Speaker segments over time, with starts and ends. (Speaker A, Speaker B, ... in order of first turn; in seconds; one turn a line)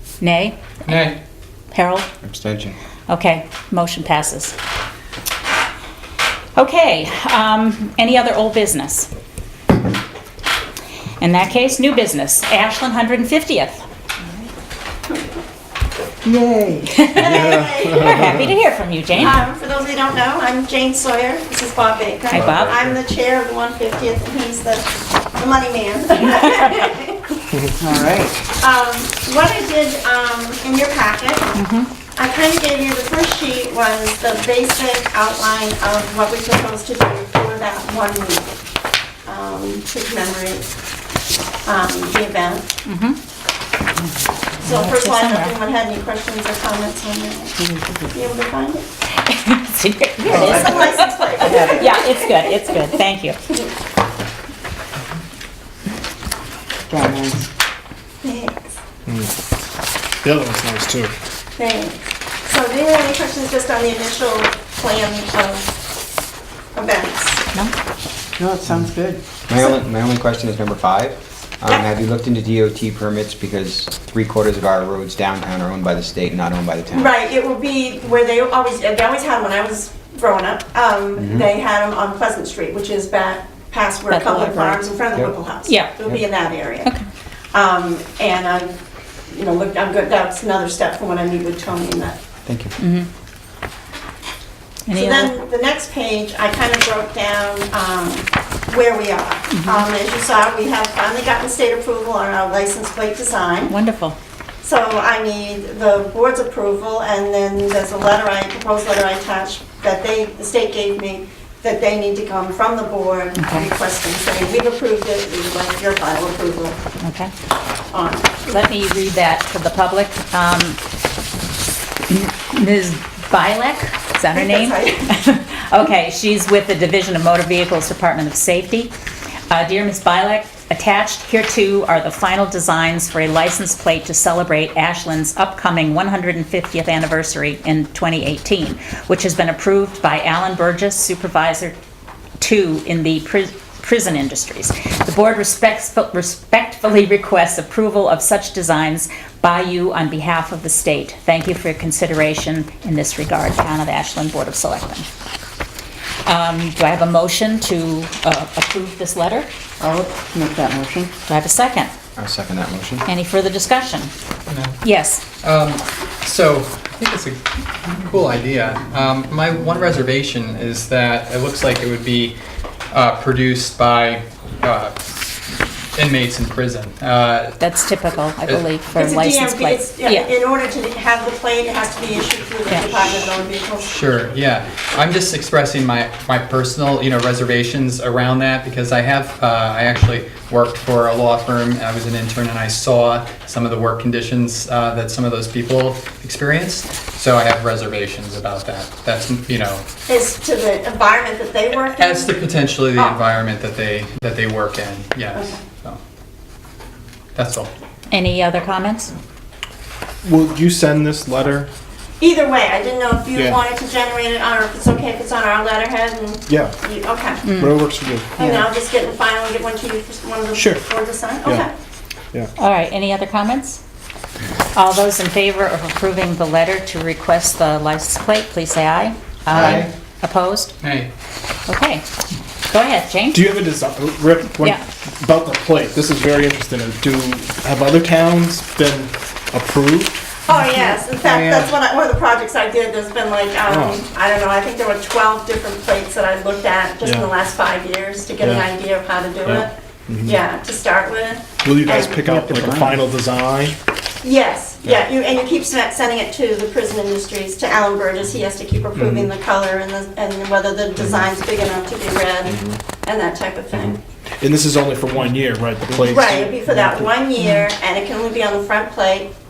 Speaker A: 0.2-1.1
Speaker B: 0.8-1.1
Speaker A: 1.7-2.1
Speaker C: 2.2-2.7
Speaker A: 3.1-4.5
Speaker A: 6.5-9.1
Speaker A: 11.2-13.8
Speaker D: 16.2-17.1
Speaker A: 16.9-19.4
Speaker E: 17.1-18.3
Speaker F: 17.3-18.4
Speaker E: 19.1-27.3
Speaker A: 22.3-22.8
Speaker F: 22.3-22.9
Speaker D: 27.8-28.4
Speaker E: 28.6-31.6
Speaker A: 31.5-31.9
Speaker E: 32.1-38.4
Speaker E: 39.2-40.7
Speaker E: 41.6-42.7
Speaker A: 42.8-43.2
Speaker E: 44.6-48.8
Speaker A: 44.6-45.5
Speaker D: 47.6-48.1
Speaker A: 49.2-53.4
Speaker E: 50.3-52.3
Speaker D: 51.4-51.8
Speaker D: 56.9-57.5
Speaker E: 58.2-58.7
Speaker F: 59.0-59.3
Speaker F: 60.2-61.1
Speaker E: 61.6-65.7
Speaker E: 66.7-67.4
Speaker D: 68.4-69.2
Speaker C: 69.5-77.1
Speaker E: 76.9-86.9
Speaker C: 81.2-81.5
Speaker A: 84.1-84.8
Speaker A: 85.7-85.9
Speaker E: 87.5-88.7
Speaker E: 89.3-92.2
Speaker C: 92.5-92.7
Speaker A: 92.8-93.1
Speaker A: 94.9-95.3
Speaker E: 94.9-103.7
Speaker A: 99.5-99.9
Speaker A: 103.7-104.2
Speaker E: 104.6-116.8
Speaker A: 113.4-113.7
Speaker A: 117.0-117.3
Speaker E: 117.9-118.3
Speaker A: 118.4-120.8
Speaker A: 122.1-128.9
Speaker E: 124.3-125.1
Speaker A: 129.5-141.8
Speaker A: 142.4-155.1
Speaker A: 156.2-159.5
Speaker D: 159.8-161.1
Speaker A: 161.2-161.9
Speaker C: 162.2-163.0
Speaker A: 163.1-164.1
Speaker B: 164.5-164.8
Speaker A: 164.8-165.2
Speaker B: 165.4-172.4
Speaker B: 172.9-175.0
Speaker B: 175.5-177.6
Speaker A: 177.6-180.3
Speaker E: 178.9-183.9
Speaker B: 183.8-199.8
Speaker E: 200.1-203.2
Speaker B: 201.9-206.0
Speaker B: 207.3-207.7
Speaker A: 208.1-209.1
Speaker F: 210.2-211.7
Speaker E: 212.2-217.5
Speaker F: 213.3-213.6
Speaker F: 216.5-216.8
Speaker A: 217.4-217.8
Speaker F: 217.5-218.6
Speaker E: 218.4-221.7
Speaker F: 220.5-220.9
Speaker A: 222.6-223.8
Speaker A: 224.7-230.8
Speaker B: 230.8-231.1
Speaker A: 231.7-232.0
Speaker A: 232.7-233.4
Speaker F: 233.3-240.3
Speaker E: 240.5-249.7
Speaker B: 241.3-241.6
Speaker F: 243.7-244.0
Speaker F: 247.0-247.3
Speaker F: 248.4-248.7
Speaker F: 249.4-250.4
Speaker E: 250.2-252.2
Speaker F: 251.6-253.8
Speaker E: 254.2-264.0
Speaker F: 258.9-259.3
Speaker F: 262.5-262.8
Speaker F: 263.7-267.1
Speaker E: 266.0-269.3